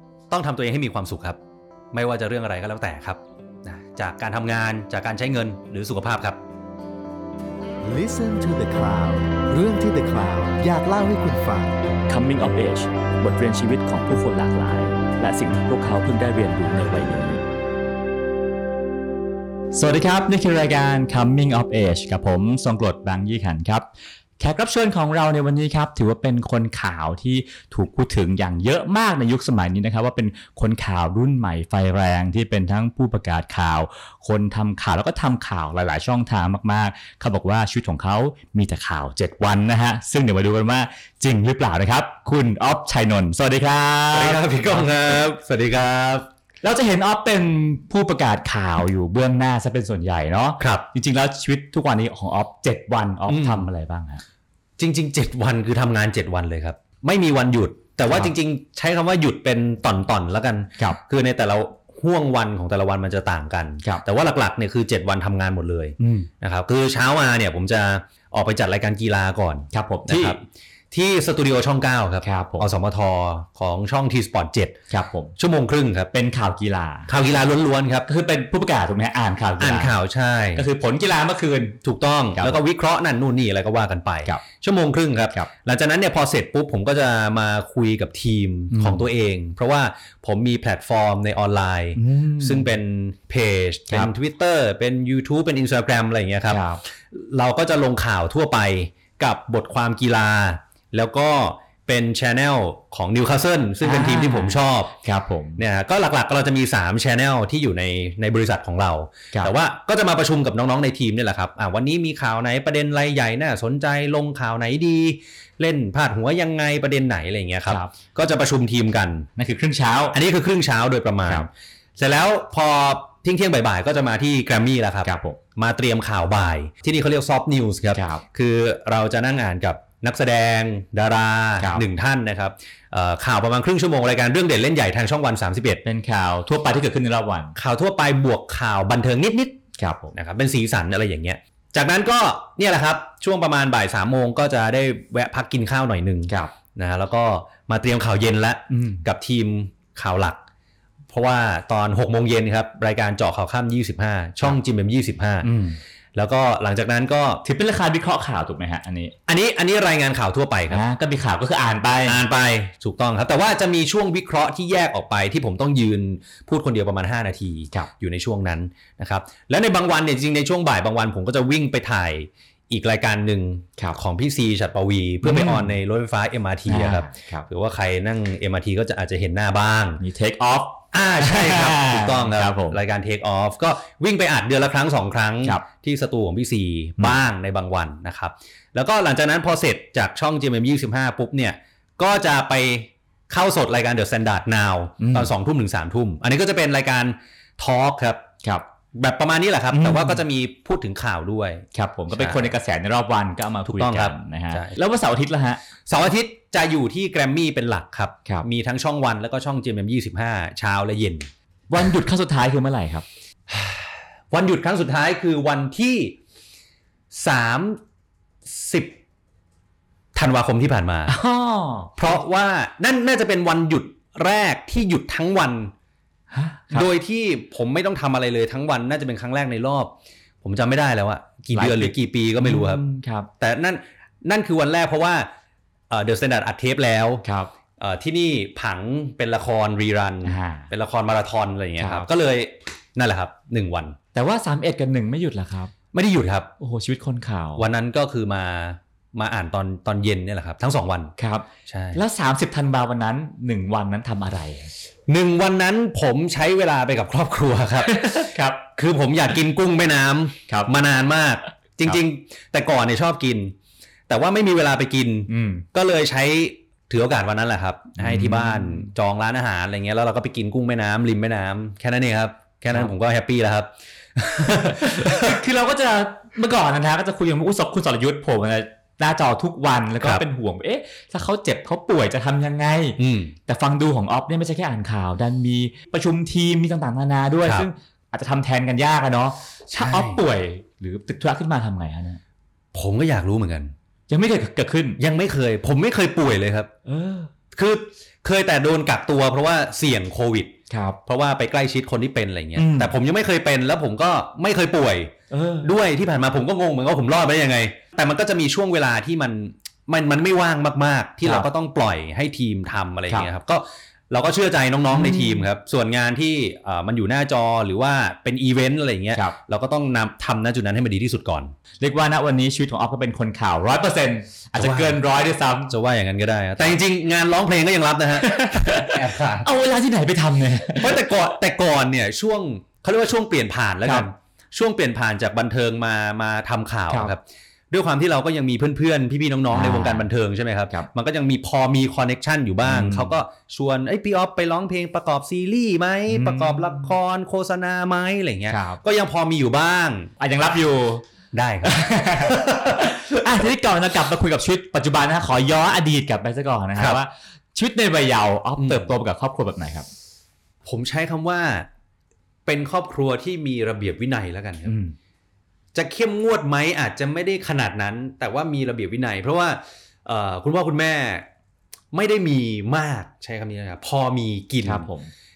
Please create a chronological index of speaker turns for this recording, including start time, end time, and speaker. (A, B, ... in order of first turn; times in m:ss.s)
0:00.3-0:01.4 A
0:01.9-0:06.4 A
0:07.8-0:11.9 B
0:12.1-0:17.4 C
0:19.7-0:23.9 C
0:24.4-0:45.2 C
0:44.1-0:46.3 A
0:46.6-0:54.2 C
0:50.6-0:50.8 A
0:53.3-0:53.7 A
0:54.8-1:14.8 A
0:58.1-0:58.3 C
1:06.0-1:06.3 C
1:09.7-1:10.4 C
1:12.2-1:12.7 C
1:14.9-1:15.3 C
1:15.4-1:16.1 A
1:16.1-1:17.1 C
1:17.1-1:18.1 A
1:18.1-1:20.0 C
1:19.6-1:20.6 A
1:20.6-1:21.8 C
1:21.8-1:36.6 A
1:22.3-1:22.6 C
1:28.7-1:29.1 C
1:32.0-1:32.7 C
1:36.5-1:36.8 C
1:37.1-1:44.9 A
1:43.8-1:45.6 C
1:45.6-1:59.3 A
1:59.4-2:00.2 C
2:00.1-2:15.8 A
2:05.0-2:05.4 C
2:08.0-2:08.2 C
2:11.6-2:11.8 C
2:15.8-2:17.6 C
2:17.6-2:19.6 A
2:19.8-2:20.1 C
2:20.1-2:30.4 A
2:28.7-2:29.0 C
2:31.1-2:35.5 A
2:35.4-2:35.8 C
2:36.2-2:37.4 A
2:37.4-2:39.2 C
2:39.3-2:40.8 A
2:40.7-2:42.2 C
2:42.0-3:00.0 A
2:55.2-2:55.8 C
2:56.7-2:57.5 C
3:00.0-3:02.8 C
3:00.9-3:18.3 A
3:15.0-3:15.3 C
3:18.9-3:22.5 A
3:19.7-3:20.2 C
3:21.7-3:25.6 C
3:23.6-3:24.8 A
3:25.9-3:31.3 A
3:31.7-3:33.1 C
3:33.5-3:36.2 A
3:37.1-3:37.8 A
3:38.5-3:39.0 A
3:40.2-3:41.2 A
3:41.1-3:42.2 C
3:42.0-3:45.7 A
3:46.3-3:46.9 C
3:46.7-3:52.8 A
3:51.5-3:53.3 C
3:53.4-3:55.3 A
3:55.9-3:57.2 A
3:57.2-3:57.5 C
3:57.8-4:04.0 A
4:00.2-4:00.7 C
4:01.8-4:02.1 C
4:04.1-4:05.7 C
4:05.9-4:06.5 A
4:06.6-4:07.7 C
4:07.6-4:11.2 A
4:11.2-4:14.7 C
4:11.7-4:12.0 A
4:15.1-4:23.6 A
4:17.9-4:18.6 C
4:20.5-4:20.7 C
4:24.1-4:35.4 A
4:25.3-4:25.6 C
4:28.0-4:28.9 C
4:34.6-4:52.2 C
4:43.0-4:43.4 A
4:49.7-4:50.2 A
4:52.7-4:53.7 A
4:54.1-4:55.0 C
4:55.0-4:56.7 A
4:56.9-4:57.3 C
4:57.5-5:00.5 A
5:00.7-5:01.0 C
5:01.1-5:21.6 A
5:02.6-5:02.9 C
5:05.3-5:05.7 C
5:14.9-5:15.5 C
5:21.8-5:25.7 C
5:24.6-5:25.0 A
5:25.7-5:29.5 A
5:28.2-5:31.2 C
5:30.8-5:50.1 A
5:39.5-5:40.1 C
5:42.6-5:43.2 C
5:46.1-5:46.9 C
5:48.5-5:48.8 C
5:50.2-5:51.0 C
5:51.3-5:53.2 A
5:51.6-5:59.9 C
5:58.6-5:58.9 A
6:00.6-6:01.7 A
6:02.5-6:04.8 A
6:04.7-6:05.0 C
6:05.7-6:11.3 A
6:11.9-6:14.9 A
6:14.6-6:15.1 C